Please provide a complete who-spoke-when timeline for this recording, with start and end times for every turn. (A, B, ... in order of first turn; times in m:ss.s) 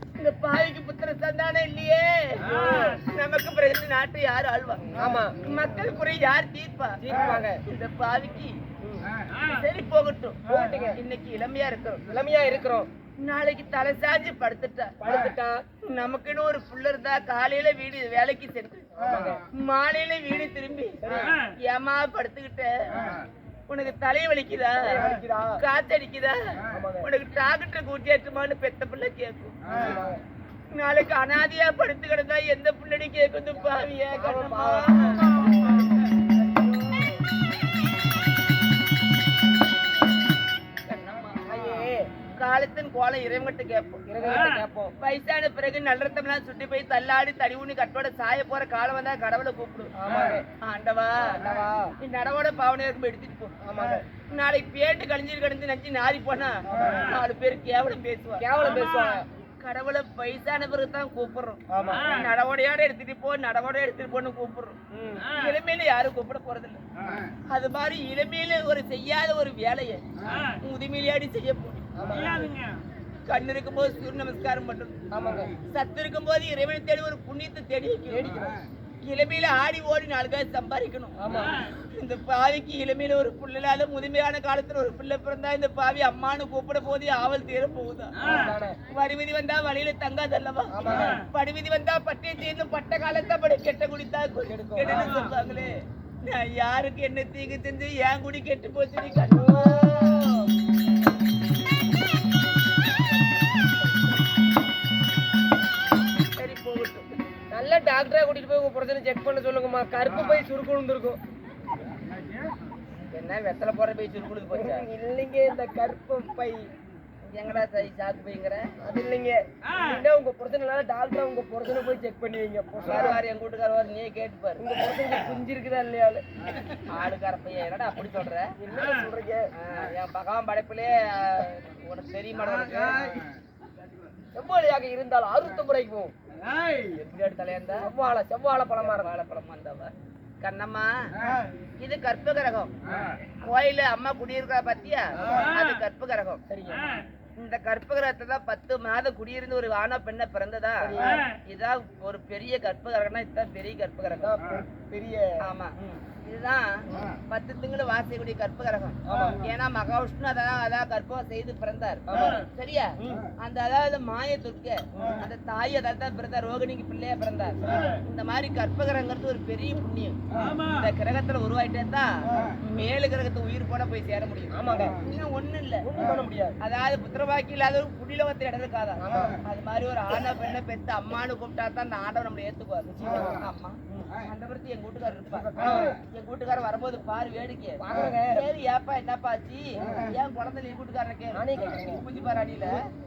0:00.2-0:07.0 A
0:05.0-0:05.4 B
0:07.0-0:07.6 B
0:07.6-0:08.6 A
0:09.4-0:12.0 A
0:10.5-0:11.0 B
0:12.1-0:12.9 B
0:13.2-0:15.0 A
0:15.0-0:15.6 B
0:15.8-0:18.9 A
0:19.0-0:19.4 B
0:19.5-0:23.1 A
0:21.0-0:21.3 B
0:23.7-0:25.0 A
0:24.8-0:25.6 B
0:25.6-0:26.4 A
0:26.7-0:27.1 B
0:27.0-0:30.0 A
0:29.7-0:30.2 B
0:30.7-0:36.0 A
0:34.2-0:36.0 B
0:40.9-0:41.5 A
0:41.4-0:42.1 B
0:42.4-0:44.0 A
0:44.1-0:44.9 B
0:45.0-0:49.9 A
0:50.0-0:50.4 B
0:50.6-0:51.4 A
0:51.3-0:51.9 B
0:52.0-0:53.5 A
0:53.6-0:54.0 B
0:54.3-1:06.8 A
0:58.4-0:59.2 B
1:01.7-1:02.1 B
1:04.9-1:05.3 B
1:07.5-1:11.9 A
1:12.0-1:12.6 B
1:13.3-1:15.0 A
1:15.1-1:15.5 B
1:15.7-1:18.3 A
1:18.1-1:18.6 B
1:19.0-1:28.2 A
1:21.2-1:21.6 B
1:28.2-1:28.8 B
1:28.9-1:40.2 A
1:30.7-1:31.2 B
1:34.5-1:35.2 B
1:39.3-1:40.5 B
1:46.4-1:47.1 A
1:47.5-1:51.2 B
1:53.1-1:54.9 A
1:54.5-1:56.7 B
1:57.2-1:58.7 A
1:58.8-2:03.2 B
2:02.8-2:04.6 A
2:04.6-2:06.2 B
2:06.9-2:08.5 A
2:08.6-2:09.5 B
2:09.6-2:13.2 A
2:14.3-2:16.1 B
2:16.8-2:17.9 A
2:17.8-2:19.1 B
2:18.7-2:21.1 A
2:21.8-2:22.7 A
2:23.4-2:26.4 A
2:26.5-2:27.0 B
2:27.4-2:34.3 A
2:30.8-2:31.2 B
2:34.2-2:36.0 B
2:35.4-2:55.9 A
2:39.1-2:39.5 B
2:42.1-2:42.5 B
2:43.0-2:43.3 B
2:45.0-2:45.2 B
2:54.5-2:55.0 B
2:55.8-2:56.6 B
2:56.6-3:12.8 A
2:59.0-2:59.4 B
3:02.9-3:04.1 B
3:05.5-3:06.0 B
3:07.8-3:08.4 B
3:11.3-3:12.0 B